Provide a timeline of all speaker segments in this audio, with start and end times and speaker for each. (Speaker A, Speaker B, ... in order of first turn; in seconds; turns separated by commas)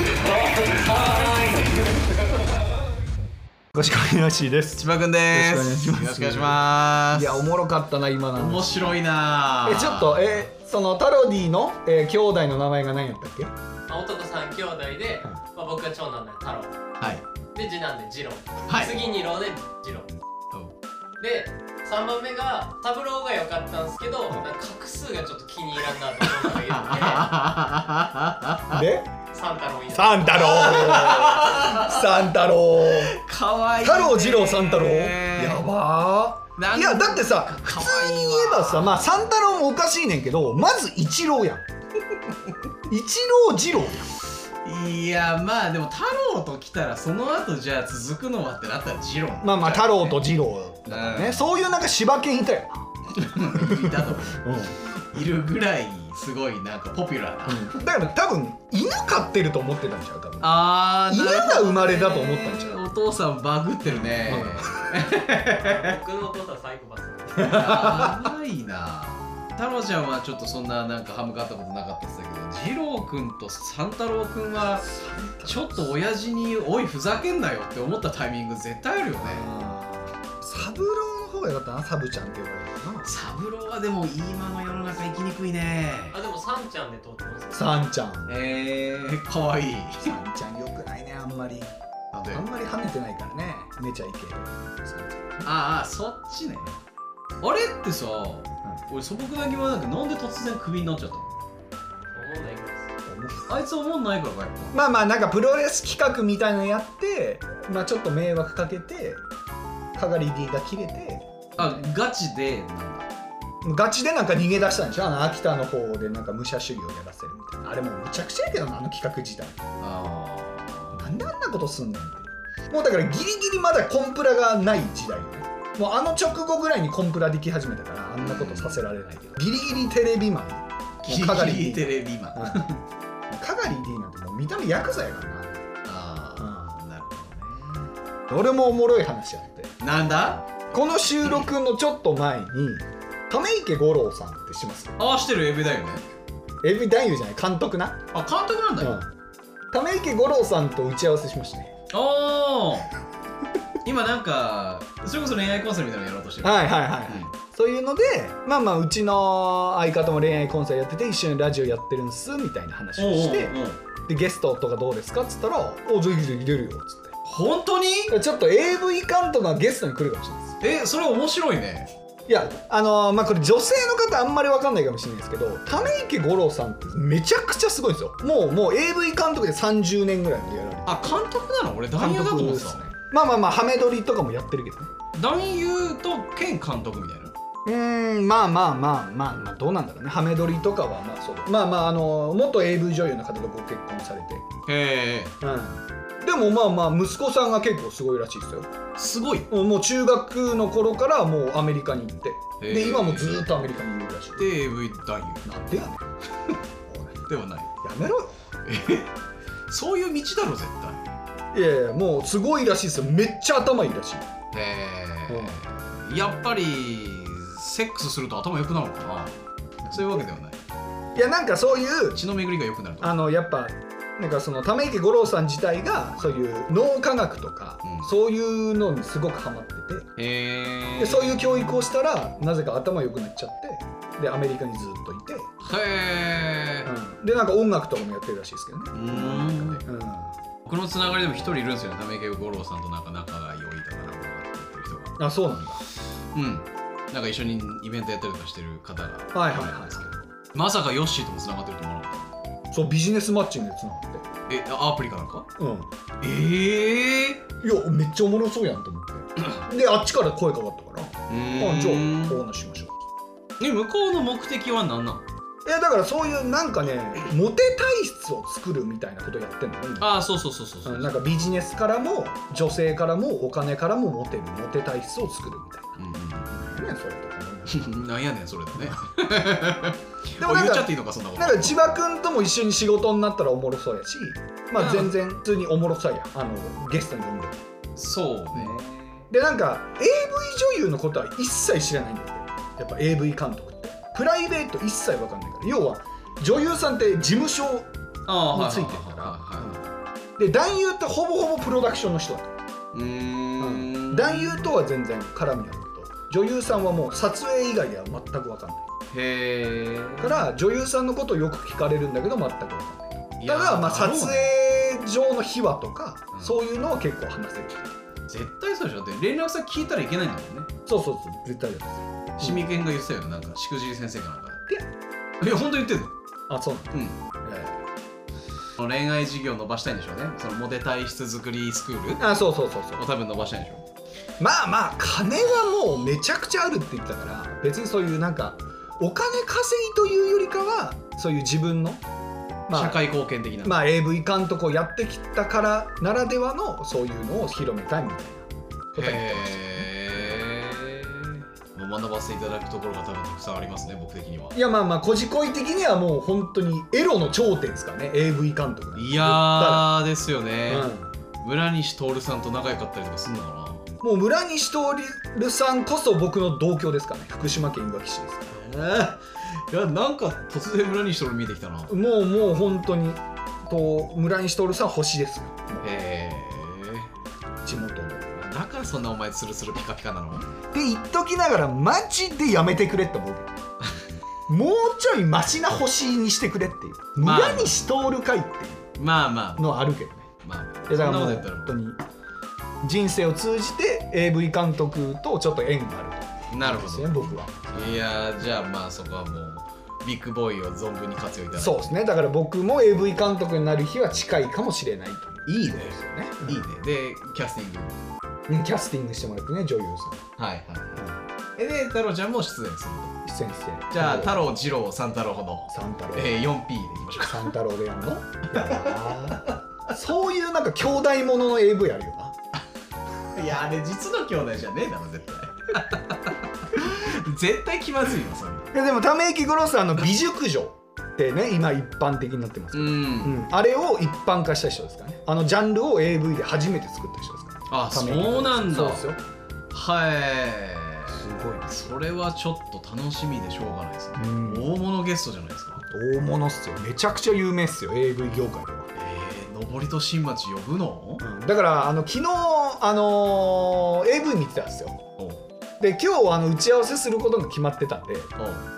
Speaker A: 0.5-1.6, Speaker B: 3.7-8.8, Speaker A: 4.8-7.5, Speaker A: 8.3-10.4, Speaker B: 9.6-13.5, Speaker C: 13.9-16.9, Speaker C: 17.6-20.1, Speaker A: 18.7-19.0, Speaker C: 21.2-27.4, Speaker A: 26.2-28.8, Speaker B: 28.7-29.1, Speaker C: 29.3-31.9, Speaker B: 29.9-33.2, Speaker A: 30.4-32.0, Speaker A: 32.8-35.7, Speaker B: 33.8-41.6, Speaker A: 36.6-39.1, Speaker B: 42.9-44.2, Speaker A: 44.6-50.2, Speaker B: 49.4-54.8, Speaker A: 50.9-51.6, Speaker A: 53.1-57.8, Speaker B: 57.5-62.8, Speaker A: 60.4-65.9, Speaker B: 64.2-64.8, Speaker C: 65.5-67.9, Speaker B: 67.4-68.2, Speaker A: 67.4-74.9, Speaker B: 74.9-75.9, Speaker A: 75.4-79.5, Speaker B: 79.2-83.1, Speaker A: 83.0-86.2, Speaker C: 86.1-87.7, Speaker B: 87.5-88.3, Speaker A: 88.3-90.1, Speaker B: 90.0-91.7, Speaker A: 92.1-92.4, Speaker B: 92.3-95.5, Speaker A: 95.4-96.8, Speaker A: 97.4-101.3, Speaker C: 102.1-102.9, Speaker B: 103.1-103.6, Speaker A: 103.5-104.8, Speaker B: 104.7-109.2, Speaker B: 110.0-111.8, Speaker A: 111.6-113.1, Speaker B: 113.6-119.7, Speaker A: 119.8-121.1, Speaker B: 121.0-132.7, Speaker A: 128.2-128.8, Speaker A: 131.0-132.8, Speaker B: 133.3-135.7, Speaker A: 135.9-137.9, Speaker B: 136.4-136.8, Speaker B: 138.3-139.8, Speaker A: 139.8-141.5, Speaker B: 140.7-145.0, Speaker A: 145.0-146.1, Speaker B: 146.6-148.0, Speaker A: 148.1-149.0, Speaker B: 148.8-149.1, Speaker B: 149.7-151.8, Speaker A: 151.9-152.9, Speaker A: 153.8-157.3, Speaker B: 156.4-167.1, Speaker A: 163.0-163.8, Speaker A: 167.2-168.2, Speaker B: 168.1-170.6, Speaker A: 170.6-171.9, Speaker B: 172.3-181.1, Speaker A: 180.9-182.9, Speaker B: 182.0-184.9, Speaker A: 185.2-187.3, Speaker B: 187.7-194.5, Speaker A: 194.7-195.4, Speaker B: 195.4-198.7, Speaker A: 199.0-199.5, Speaker B: 199.5-204.5, Speaker A: 202.6-203.4, Speaker A: 204.4-205.5, Speaker B: 205.4-206.1, Speaker B: 206.9-207.3, Speaker A: 207.3-207.8, Speaker B: 207.8-208.4, Speaker A: 208.7-209.1, Speaker A: 209.7-211.1, Speaker B: 211.5-214.3, Speaker A: 214.5-220.6, Speaker B: 215.3-215.6, Speaker B: 219.9-220.2, Speaker B: 221.2-222.2, Speaker A: 222.1-223.1, Speaker B: 223.0-230.1, Speaker A: 227.8-228.1, Speaker A: 230.2-231.8, Speaker B: 231.0-235.5, Speaker A: 235.6-236.9, Speaker B: 236.8-240.4, Speaker A: 238.9-239.9, Speaker A: 240.7-245.2, Speaker B: 245.2-245.8, Speaker A: 246.3-252.3, Speaker B: 249.3-250.3, Speaker B: 252.7-254.3, Speaker A: 254.5-255.5, Speaker B: 255.6-255.9, Speaker A: 256.2-257.4, Speaker B: 257.6-262.9, Speaker A: 261.3-262.4, Speaker A: 263.6-265.2, Speaker B: 265.6-270.1, Speaker A: 270.0-271.1, Speaker B: 270.9-276.0, Speaker A: 276.0-276.6, Speaker B: 276.5-277.9, Speaker A: 277.7-281.8, Speaker B: 280.4-287.6, Speaker A: 284.8-285.1, Speaker A: 288.0-289.3, Speaker B: 289.3-297.9, Speaker A: 298.3-299.9, Speaker B: 298.5-299.8, Speaker B: 300.4-302.6, Speaker A: 302.9-304.7, Speaker B: 303.6-308.9, Speaker A: 309.1-310.5, Speaker B: 310.2-318.0, Speaker A: 313.4-314.5, Speaker A: 318.3-320.7, Speaker B: 320.9-322.7, Speaker A: 322.4-324.7, Speaker A: 325.4-326.1, Speaker B: 326.5-327.7, Speaker A: 326.9-327.2, Speaker A: 328.8-332.3, Speaker B: 332.2-333.0, Speaker A: 333.0-333.9, Speaker B: 334.4-342.0, Speaker B: 342.7-343.0, Speaker A: 342.7-343.8, Speaker B: 343.6-349.9, Speaker A: 349.0-354.6, Speaker B: 354.5-359.9, Speaker A: 359.0-363.9, Speaker B: 360.7-361.1, Speaker B: 364.0-368.5, Speaker A: 368.5-371.9, Speaker B: 371.9-375.9, Speaker A: 375.8-377.1, Speaker B: 377.6-378.5, Speaker A: 378.4-380.5, Speaker B: 380.7-383.6, Speaker B: 384.5-389.0, Speaker A: 387.2-387.8, Speaker A: 389.0-389.8, Speaker B: 389.6-390.3, Speaker A: 390.4-391.8, Speaker B: 390.9-392.0, Speaker B: 392.8-398.0, Speaker A: 396.5-401.9, Speaker B: 401.5-406.7, Speaker A: 405.5-408.0, Speaker B: 408.5-410.2, Speaker A: 410.4-411.1, Speaker A: 411.6-413.2, Speaker B: 413.2-414.5, Speaker A: 413.9-417.5, Speaker B: 415.7-416.5, Speaker B: 417.2-422.4, Speaker A: 418.6-418.9, Speaker A: 423.3-428.7, Speaker B: 428.7-439.2, Speaker A: 432.7-433.5, Speaker A: 437.7-439.1, Speaker A: 439.7-445.9, Speaker B: 441.1-441.9, Speaker B: 444.2-444.8, Speaker B: 445.9-448.9, Speaker A: 448.9-451.2, Speaker B: 451.2-455.0, Speaker A: 455.2-455.4, Speaker B: 455.8-458.3, Speaker A: 458.4-458.7